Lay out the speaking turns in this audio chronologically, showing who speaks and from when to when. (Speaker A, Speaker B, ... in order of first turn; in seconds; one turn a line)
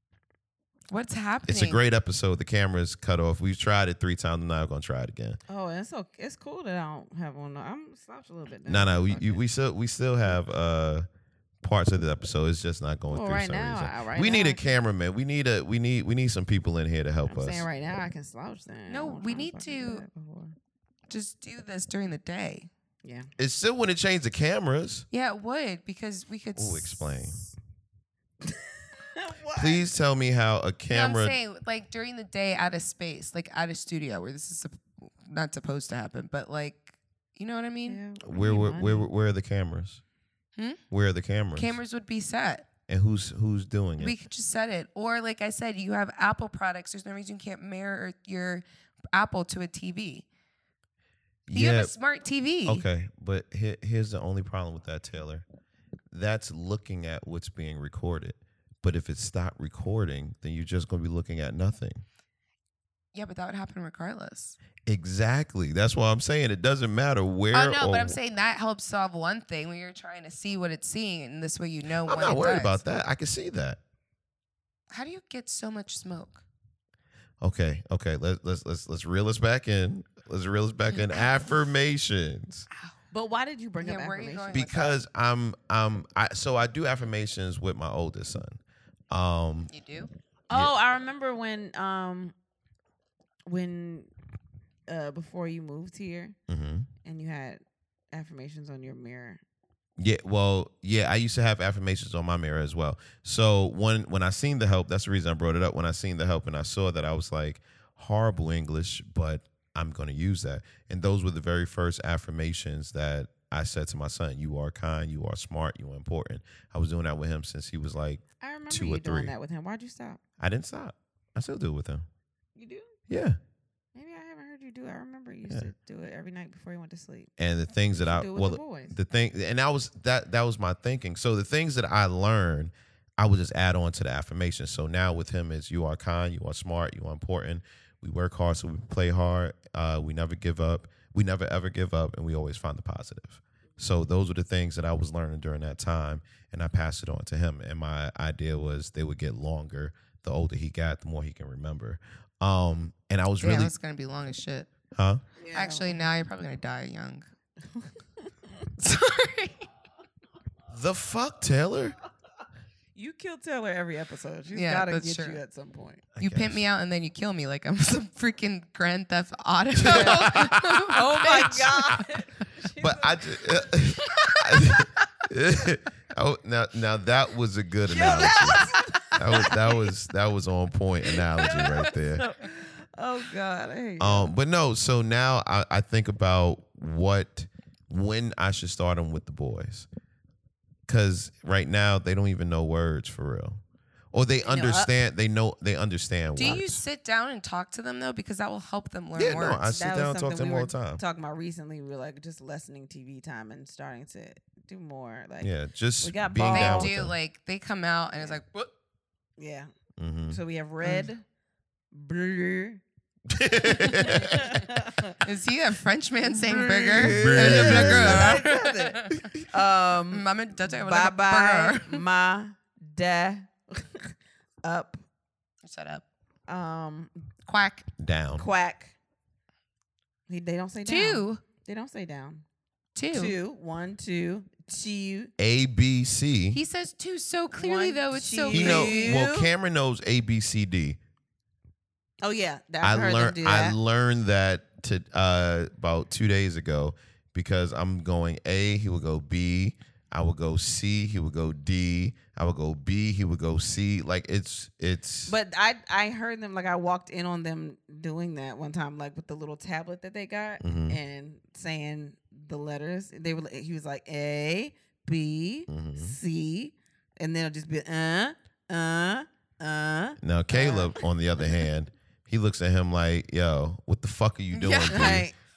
Speaker A: 0.9-1.8
Speaker B: 1.5-5.4
Speaker C: 5.5-9.4
Speaker B: 8.7-11.1
Speaker B: 11.6-17.6
Speaker C: 13.1-14.6
Speaker C: 17.3-20.5
Speaker A: 18.9-20.0
Speaker A: 21.1-22.7
Speaker C: 23.0-23.3
Speaker B: 23.4-25.1
Speaker A: 25.1-27.3
Speaker B: 26.6-27.4
Speaker C: 28.4-29.8
Speaker B: 29.5-31.4
Speaker A: 30.9-38.0
Speaker C: 37.9-39.1
Speaker B: 38.2-40.0
Speaker B: 40.9-41.8
Speaker A: 41.5-42.7
Speaker B: 42.9-44.1
Speaker A: 44.0-50.2
Speaker B: 51.5-51.9
Speaker A: 51.5-52.9
Speaker B: 52.6-55.4
Speaker B: 56.1-62.0
Speaker A: 63.1-64.6
Speaker B: 64.8-68.2
Speaker A: 67.5-72.8
Speaker B: 72.0-73.8
Speaker A: 74.9-76.4
Speaker B: 77.4-82.7
Speaker C: 83.1-84.8
Speaker A: 83.8-85.0
Speaker B: 84.5-88.6
Speaker B: 89.1-89.7
Speaker A: 89.7-90.1
Speaker C: 90.5-92.3
Speaker C: 93.5-94.1
Speaker C: 94.9-96.3
Speaker B: 96.5-96.9
Speaker C: 97.0-99.4
Speaker B: 100.0-119.3
Speaker C: 118.4-120.2
Speaker B: 120.4-122.0
Speaker C: 122.5-123.0
Speaker B: 123.1-123.4
Speaker C: 123.9-127.3
Speaker B: 127.4-153.7
Speaker C: 128.0-128.9
Speaker A: 153.4-154.7
Speaker B: 154.9-155.2
Speaker C: 155.4-156.0
Speaker A: 155.5-157.3
Speaker A: 158.8-159.7
Speaker B: 160.7-162.0
Speaker C: 162.9-166.1
Speaker A: 164.5-165.4
Speaker B: 166.2-166.6
Speaker A: 166.2-172.1
Speaker B: 169.8-170.8
Speaker C: 169.8-173.7
Speaker B: 171.3-171.8
Speaker B: 172.8-182.2
Speaker A: 174.0-174.4
Speaker C: 177.9-179.9
Speaker C: 181.1-184.3
Speaker B: 184.0-189.9
Speaker B: 190.9-193.6
Speaker B: 194.1-196.8
Speaker C: 194.4-194.9
Speaker A: 196.3-199.8
Speaker B: 199.2-201.0
Speaker C: 199.7-206.9
Speaker B: 205.4-207.1
Speaker A: 206.5-208.7
Speaker C: 209.4-209.7
Speaker B: 210.0-210.4
Speaker C: 210.3-211.2
Speaker C: 211.9-212.8
Speaker B: 213.3-214.6
Speaker C: 213.7-215.2
Speaker A: 215.2-219.3
Speaker C: 216.3-225.0
Speaker B: 216.9-218.4
Speaker A: 220.1-222.0
Speaker A: 225.6-226.0
Speaker C: 226.5-227.1
Speaker A: 227.5-227.9
Speaker B: 228.0-228.4
Speaker C: 228.4-228.9
Speaker C: 230.3-232.4
Speaker A: 230.8-231.4
Speaker A: 232.9-233.3
Speaker C: 233.1-235.3
Speaker B: 235.4-236.6
Speaker A: 236.5-239.2
Speaker C: 237.5-239.5
Speaker B: 238.5-241.0
Speaker C: 242.2-243.8
Speaker B: 242.8-255.3
Speaker C: 255.3-271.0
Speaker B: 260.6-261.0
Speaker B: 265.7-266.2
Speaker B: 270.2-275.3
Speaker A: 274.5-275.2
Speaker C: 274.9-275.3